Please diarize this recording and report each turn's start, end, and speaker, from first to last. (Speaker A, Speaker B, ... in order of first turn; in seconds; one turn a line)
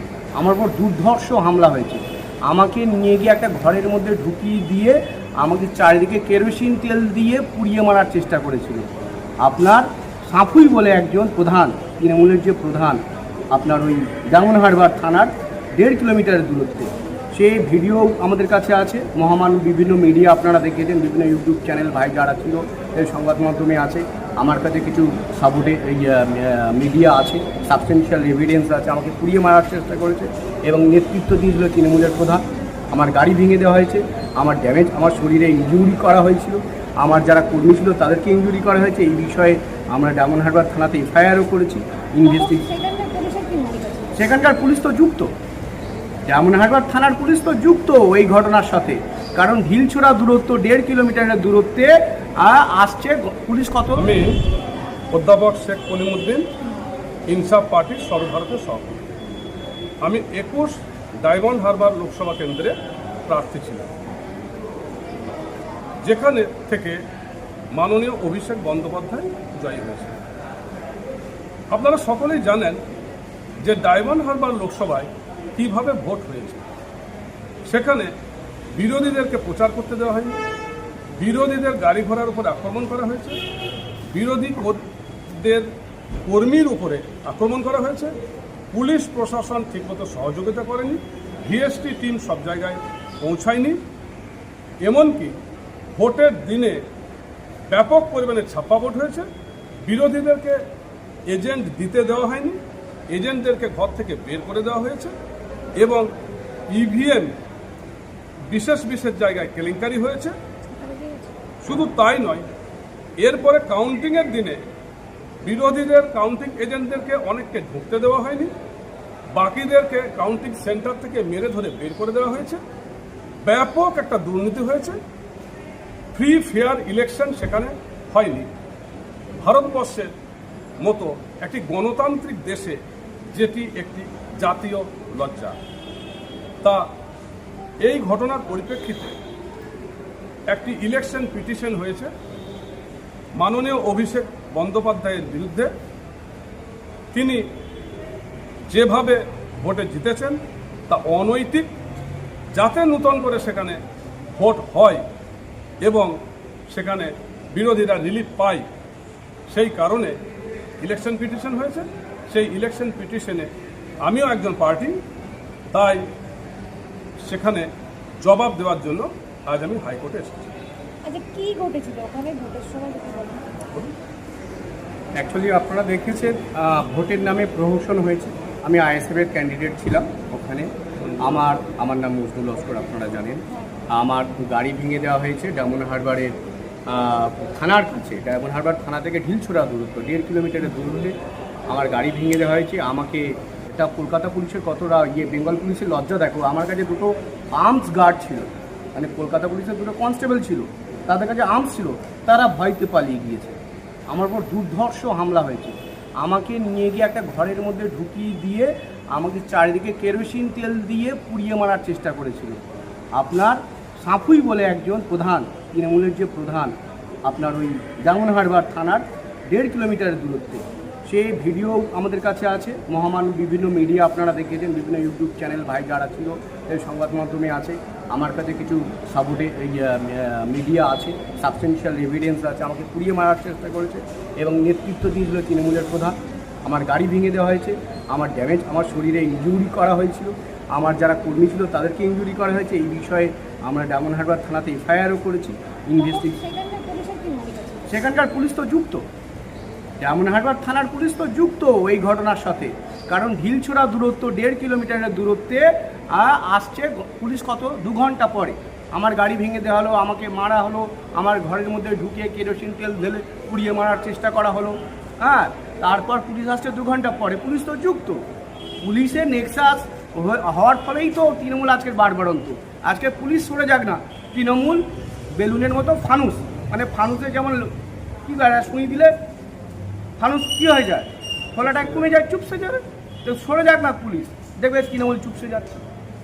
Speaker A: 0.3-8.9
Speaker A: 9.4-13.0
Speaker A: 13.5-42.6
Speaker B: 42.2-44.4
Speaker A: 44.1-45.3
Speaker A: 46.3-54.1
Speaker C: 53.9-54.4
Speaker C: 55.1-56.5
Speaker C: 57.3-59.1
Speaker C: 60.0-63.9
Speaker C: 66.0-67.0
Speaker C: 67.7-70.2
Speaker C: 71.7-72.8
Speaker C: 73.6-76.6
Speaker C: 77.7-78.1
Speaker C: 78.7-80.4
Speaker C: 81.2-83.4
Speaker C: 84.1-85.7
Speaker C: 86.2-88.1
Speaker C: 88.7-93.8
Speaker C: 94.8-95.3
Speaker C: 96.0-96.8
Speaker C: 97.7-99.3
Speaker C: 99.8-100.6
Speaker C: 101.3-105.1
Speaker C: 105.8-106.1
Speaker C: 106.7-107.3
Speaker C: 108.5-110.4
Speaker B: 110.7-111.3
Speaker C: 111.6-112.5
Speaker C: 113.2-114.6
Speaker C: 115.4-118.5
Speaker C: 119.3-122.6
Speaker C: 123.4-125.0
Speaker C: 126.1-128.5
Speaker C: 129.4-130.1
Speaker C: 130.8-132.8
Speaker C: 133.3-135.6
Speaker C: 136.6-136.9
Speaker C: 137.8-139.2
Speaker C: 140.5-142.1
Speaker C: 143.3-145.7
Speaker C: 147.1-147.4
Speaker C: 148.7-151.7
Speaker C: 152.5-153.8
Speaker C: 154.3-155.0
Speaker C: 155.8-156.2
Speaker C: 156.7-158.7
Speaker C: 159.5-160.2
Speaker C: 160.8-163.5
Speaker C: 164.0-165.0
Speaker C: 165.7-166.0
Speaker C: 167.2-167.7
Speaker C: 168.2-170.5
Speaker B: 171.0-173.6
Speaker A: 175.2-186.3
Speaker C: 181.0-181.4
Speaker A: 186.9-191.1
Speaker A: 191.7-212.6
Speaker A: 213.2-216.7
Speaker A: 217.2-246.3
Speaker B: 246.0-247.9
Speaker A: 247.9-249.0
Speaker A: 250.0-268.2
Speaker A: 268.8-277.7
Speaker A: 278.2-279.1
Speaker A: 280.2-285.8